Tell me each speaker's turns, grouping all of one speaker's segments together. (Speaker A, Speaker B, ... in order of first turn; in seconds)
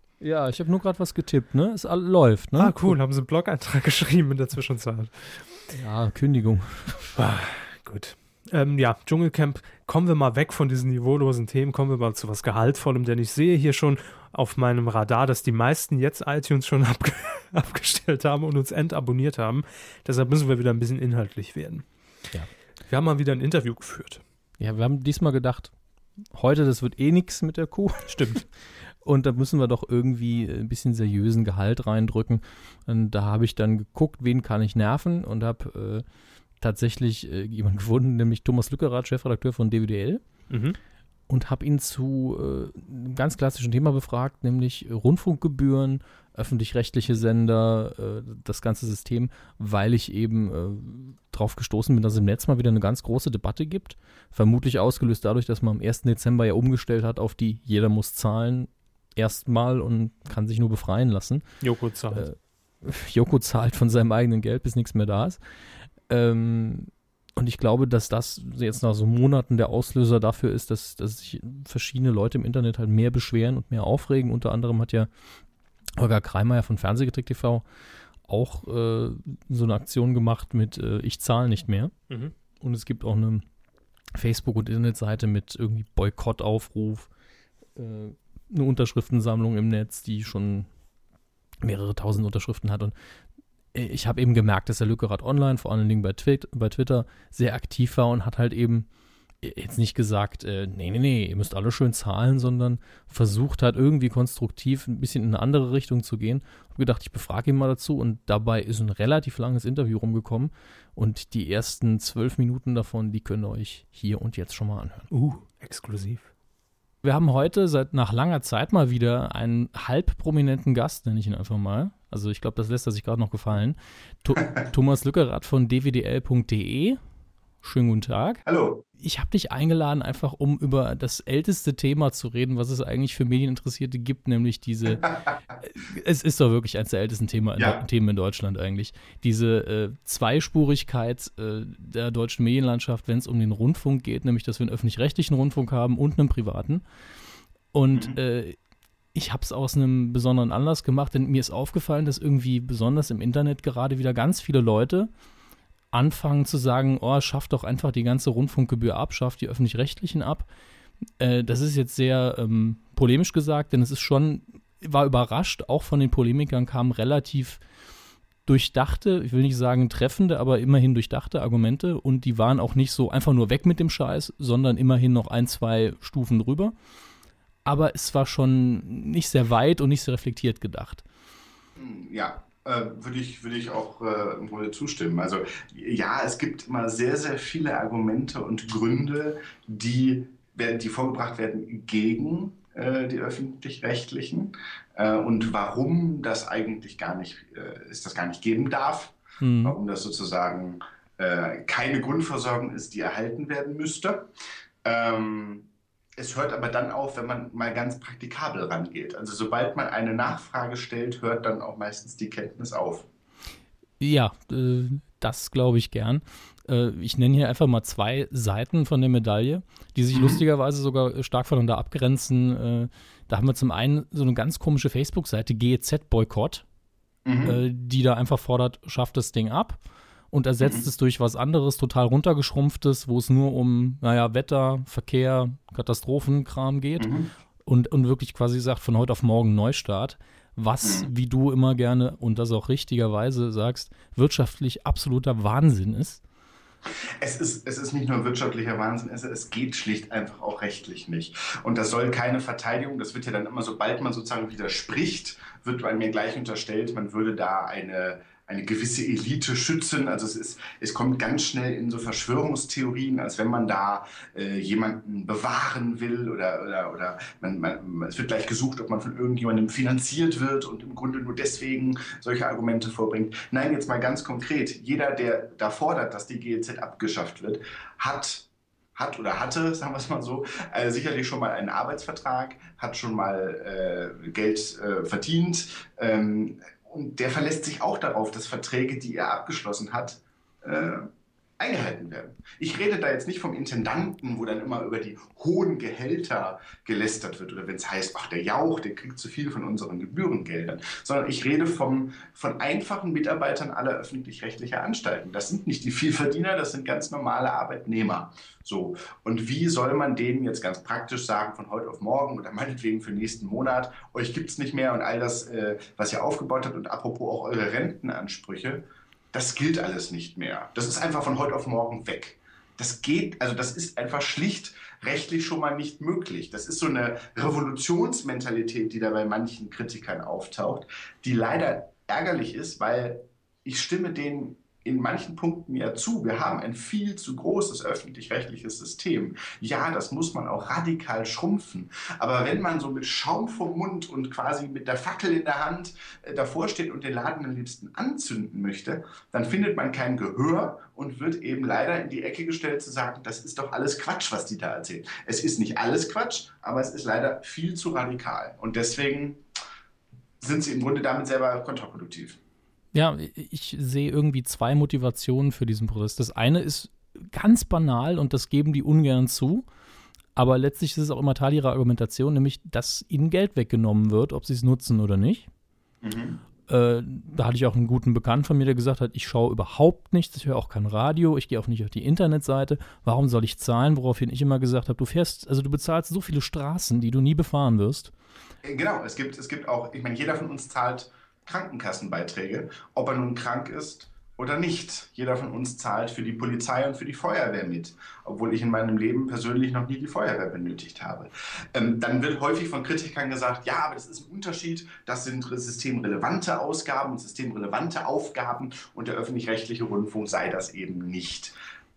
Speaker A: 0.2-3.0, 5.7-7.1, 24.6-25.7, 26.3-28.5, 29.0-36.0, 36.6-40.2, 41.3-61.5, 62.1-65.4, 66.1-75.1, 76.0-77.7, 78.2-81.9, 82.6-83.4, 84.1-87.1, 87.8-90.7, 91.6-92.9, 93.7-98.9, 99.4-115.1, 117.0-127.0, 127.6-128.4, 129.0-135.1, 135.6-146.8, 147.7-148.6, 149.1-155.1, 155.9-160.5, 161.2-167.6, 168.5-176.7, 177.7-181.0, 199.4-199.8, 214.0-226.6, 227.4-229.8, 230.3-237.1, 237.7-246.2, 362.9-369.7, 370.4-375.5, 376.7-388.1
Speaker B: 2.6-5.5, 7.2-21.9, 22.9-24.2, 28.1-28.4, 40.5-40.8, 61.6-62.3, 115.1-116.3
Speaker C: 128.5-128.8, 181.8-204.3, 204.8-213.1, 220.1-220.4, 227.2-227.6, 237.0-237.3, 240.8-241.1, 247.2-359.4, 360.4-362.4, 376.0-376.4, 388.6-411.5